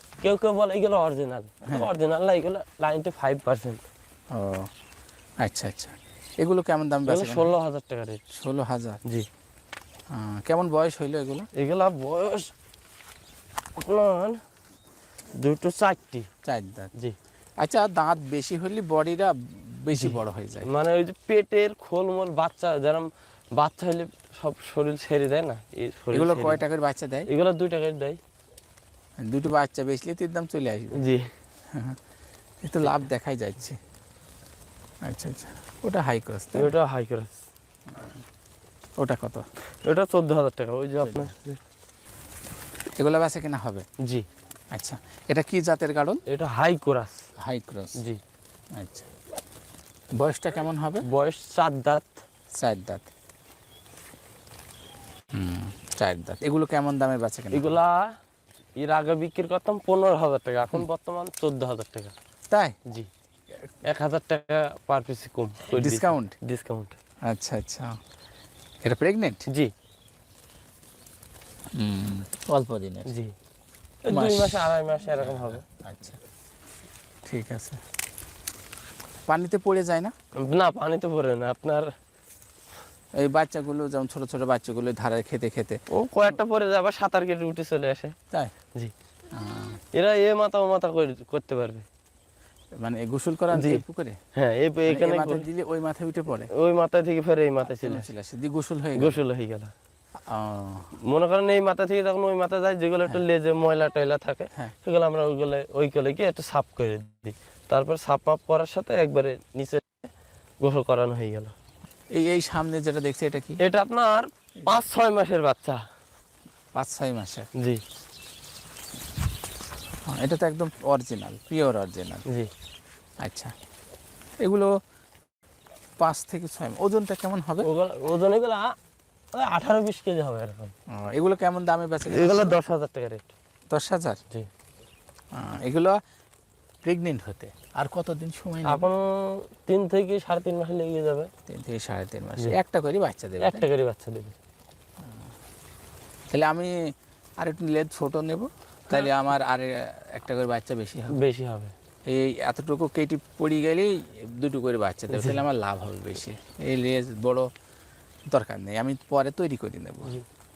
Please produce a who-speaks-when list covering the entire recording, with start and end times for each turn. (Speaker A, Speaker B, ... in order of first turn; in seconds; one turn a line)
Speaker A: 0.2-3.8
Speaker B: 4.3-4.7
Speaker B: 5.4-7.5
Speaker A: 7.1-8.2
Speaker B: 8.3-9.0
Speaker B: 10.1-11.5
Speaker A: 11.6-12.5
Speaker A: 13.8-14.4
Speaker A: 15.4-16.3
Speaker B: 16.4-16.9
Speaker B: 17.6-20.7
Speaker A: 19.9-26.6
Speaker B: 26.1-27.3
Speaker A: 27.3-28.2
Speaker B: 29.2-31.0
Speaker A: 30.9-31.3
Speaker B: 31.7-32.0
Speaker B: 32.6-33.8
Speaker B: 35.0-36.7
Speaker A: 36.5-37.4
Speaker B: 39.0-39.4
Speaker A: 39.8-41.6
Speaker B: 41.0-41.3
Speaker B: 43.0-43.8
Speaker B: 44.7-46.2
Speaker A: 46.3-47.2
Speaker B: 47.4-48.0
Speaker B: 48.8-49.1
Speaker B: 50.2-51.0
Speaker A: 51.0-52.2
Speaker B: 52.6-53.1
Speaker B: 55.3-57.8
Speaker A: 57.5-58.1
Speaker A: 58.8-62.1
Speaker B: 62.5-62.8
Speaker A: 63.9-67.0
Speaker B: 65.7-66.3
Speaker B: 67.3-67.9
Speaker B: 68.8-69.4
Speaker B: 71.8-73.1
Speaker A: 74.0-75.6
Speaker B: 74.1-76.2
Speaker B: 77.3-77.8
Speaker B: 79.3-80.1
Speaker A: 80.4-81.9
Speaker B: 83.2-85.8
Speaker A: 85.9-88.2
Speaker B: 89.3-89.8
Speaker A: 89.9-91.8
Speaker B: 92.8-94.2
Speaker A: 93.5-93.8
Speaker A: 94.3-95.4
Speaker B: 94.9-96.5
Speaker A: 96.5-98.1
Speaker B: 97.8-99.2
Speaker A: 99.0-99.7
Speaker B: 100.3-100.9
Speaker A: 101.1-110.0
Speaker A: 110.6-111.5
Speaker B: 112.1-113.6
Speaker A: 113.6-115.8
Speaker B: 116.7-117.5
Speaker B: 120.1-122.2
Speaker B: 123.2-123.5
Speaker B: 124.4-124.7
Speaker B: 126.0-127.7
Speaker A: 127.6-128.7
Speaker A: 129.3-130.7
Speaker B: 130.9-132.6
Speaker A: 132.1-133.3
Speaker B: 133.7-134.2
Speaker B: 135.3-136.0
Speaker B: 136.8-138.9
Speaker A: 138.7-141.3
Speaker B: 141.4-143.7
Speaker A: 143.4-144.3
Speaker B: 146.3-151.2
Speaker A: 151.1-151.7
Speaker B: 152.1-157.5
Speaker A: 155.1-155.4
Speaker B: 158.3-160.1